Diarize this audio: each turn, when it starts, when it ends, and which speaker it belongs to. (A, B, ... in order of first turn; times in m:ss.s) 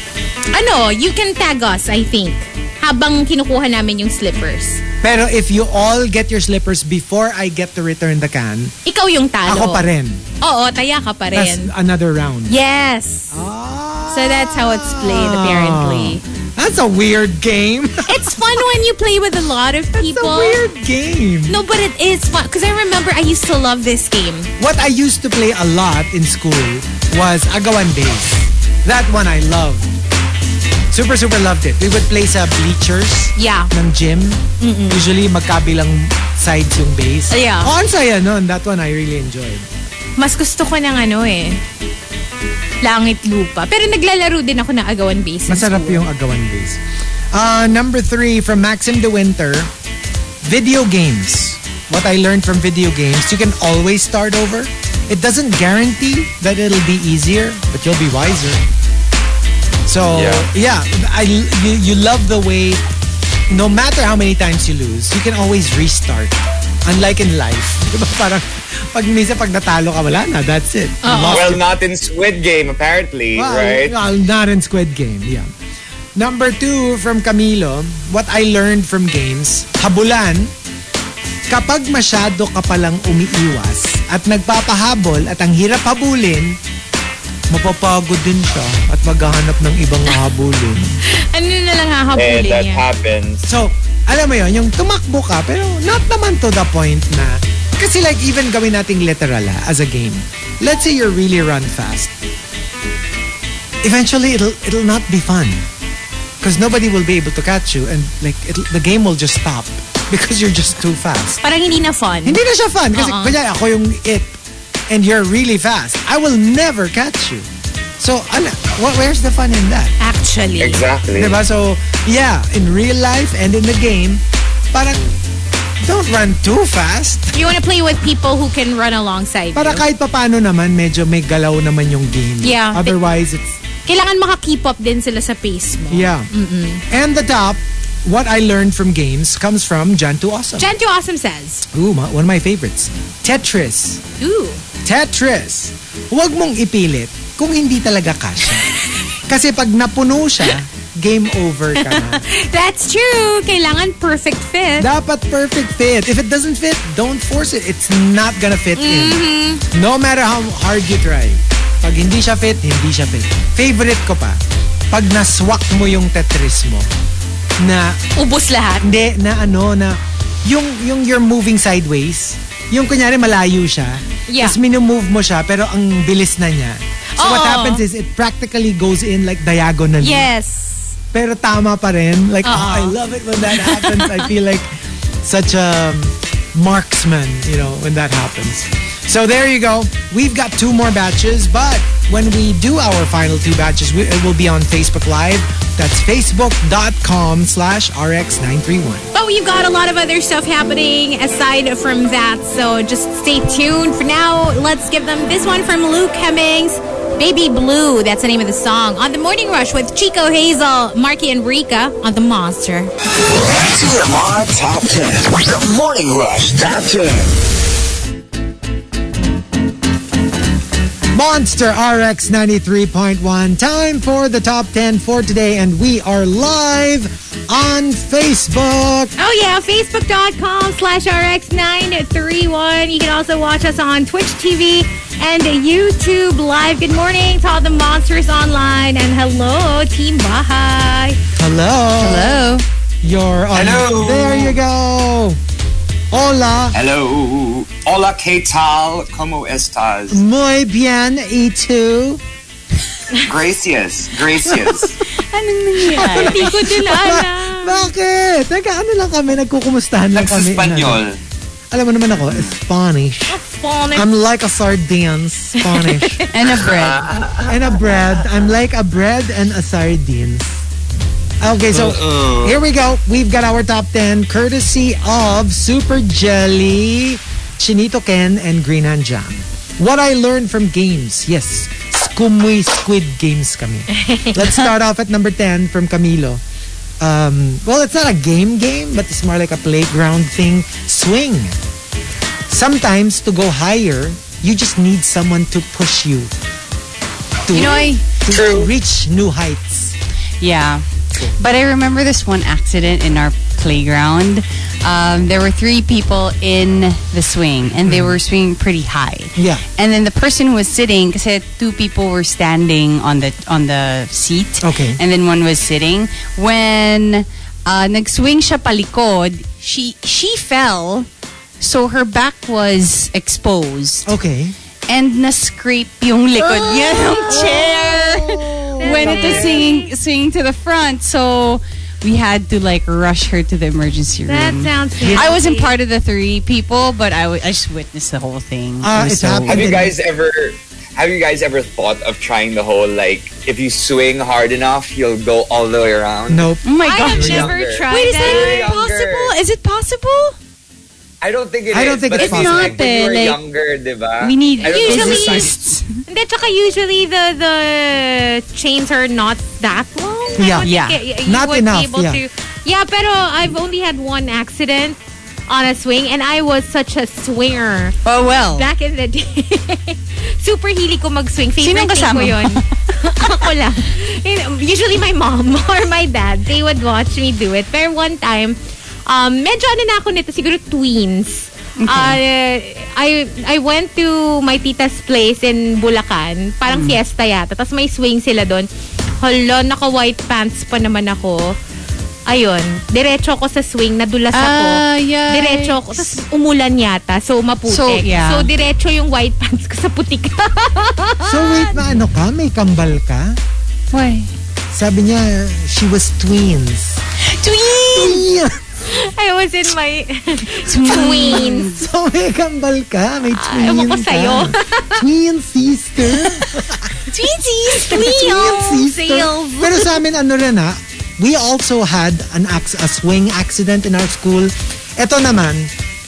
0:00.5-0:04.8 A
0:05.0-0:08.7 B
0:08.8-0:09.8 A
0:09.4-0:10.2 B
0:10.4-0:11.7 A
0:11.3-0:12.5 B
0:12.5-0:13.4 A
0:13.3-0:18.5 B
0:14.1-0:16.2 A
0:18.0-0:20.6 A
0:20.0-0:21.6 B
0:21.5-0:24.5 A
0:24.6-0:29.9 B
0:30.9-0:39.6 B
0:33.4-0:33.7 A
0:34.6-0:35.1 A
0:37.3-0:37.7 A
0:40.2-0:41.6 A
0:42.8-0:46.0 A
0:45.5-0:46.8 B
0:47.3-0:49.7 B
0:50.4-0:58.6 B
0:59.8-1:02.8 B
1:00.1-1:00.5 C
1:03.5-1:11.6 B
1:11.0-1:11.6 A
1:11.2-1:13.9 C
1:13.3-1:15.5 B
1:16.2-1:20.5 B
1:21.5-1:26.6 B
1:27.5-1:31.0 B
1:31.2-1:32.8 A
1:32.1-1:33.4 C
1:33.4-1:42.1 B
1:43.8-1:45.6 B
1:46.4-1:51.4 B
1:51.4-1:52.4 A
1:52.2-1:54.3 B
1:52.9-1:53.4 A
1:54.9-1:57.5 B
1:58.0-1:59.9 B
2:00.0-2:00.8 A
2:00.6-2:01.4 C
2:01.1-2:05.1 B
2:05.8-2:07.5 B
2:07.3-2:09.8 A
2:09.5-2:13.6 B
2:12.4-2:13.0 A
2:13.8-2:16.8 A
2:15.9-2:16.3 B
2:16.9-2:20.7 B
2:20.6-2:21.6 A
2:21.7-2:24.0 B
2:24.2-2:24.6 A
2:24.8-2:32.2 B
2:31.8-2:34.9 A
2:34.8-2:44.4 B
2:38.8-2:39.6 A
2:44.9-2:46.9 B
2:47.6-2:48.0 B
2:48.2-2:48.9 A
2:48.8-3:00.3 B
2:54.3-2:54.6 A
2:57.2-2:57.8 A
3:00.0-3:00.9 A
3:01.1-3:04.7 B
3:02.4-3:02.9 A
3:03.5-3:04.2 A
3:05.2-3:19.1 B
3:19.1-3:32.9 A
3:33.2-3:37.3 D
3:41.1-3:49.1 B
3:49.2-4:01.2 A
4:01.4-4:02.4 B
4:02.0-4:02.6 E
4:03.0-4:05.4 B
4:03.5-4:04.6 C
4:06.1-4:06.8 B
4:06.7-4:10.2 C
4:10.1-4:12.2 B
4:13.2-4:15.0 C
4:14.4-4:15.0 B
4:15.2-4:16.6 E
4:15.8-4:21.0 B
4:16.2-4:17.9 A
4:20.1-4:21.2 C
4:21.7-4:23.4 B
4:23.3-4:24.0 A
4:23.9-4:26.2 B
4:25.6-4:26.2 A
4:26.3-4:27.1 E
4:26.6-4:27.6 C
4:27.4-4:30.6 B
4:31.4-4:46.4 B
4:31.7-4:32.6 C
4:44.0-4:44.4 A
4:47.0-4:51.6 B
4:52.5-4:56.3 B
4:57.5-4:59.9 B
4:57.5-4:58.0 E
4:58.3-4:58.7 C
5:00.4-5:00.8 E
5:01.4-5:21.1 E
5:07.8-5:08.2 B
5:09.4-5:09.6 B
5:14.6-5:15.0 B
5:21.6-5:24.1 E
5:24.0-5:24.6 B
5:24.9-5:39.8 E
5:26.5-5:27.4 A
5:27.2-5:29.6 B
5:28.8-5:29.9 A
5:34.3-5:35.7 A
5:35.0-5:35.3 B
5:38.8-5:39.9 B
5:39.5-5:46.5 C
5:46.3-5:46.6 B
5:46.6-5:50.3 E
5:46.8-5:48.7 A
5:47.2-5:47.5 B
5:47.2-5:49.3 C
5:51.2-5:55.5 C
5:51.7-5:52.8 B
5:52.1-5:53.4 E
5:54.2-5:56.0 E
5:54.6-5:55.5 A
5:54.9-5:55.2 B
5:56.1-6:05.0 A
6:00.4-6:00.7 B
6:00.6-6:01.0 E
6:01.2-6:02.2 B
6:05.5-6:08.0 A
6:08.0-6:08.7 E
6:08.5-6:28.7 A
6:11.6-6:12.6 E
6:21.8-6:22.2 E
6:26.7-6:27.0 E
6:29.2-6:31.5 A
6:32.3-6:41.8 A
6:34.3-6:36.2 E
6:37.7-6:38.5 E
6:41.2-6:43.4 B
6:43.9-6:44.3 E
6:44.7-6:47.0 B
6:47.2-6:48.2 E
6:47.7-6:48.6 B
6:48.8-6:51.8 A
6:50.6-6:51.8 E
6:50.9-6:57.0 B
6:53.4-6:55.0 A
6:57.0-6:58.2 E
6:57.7-7:00.0 A
6:57.8-7:05.7 B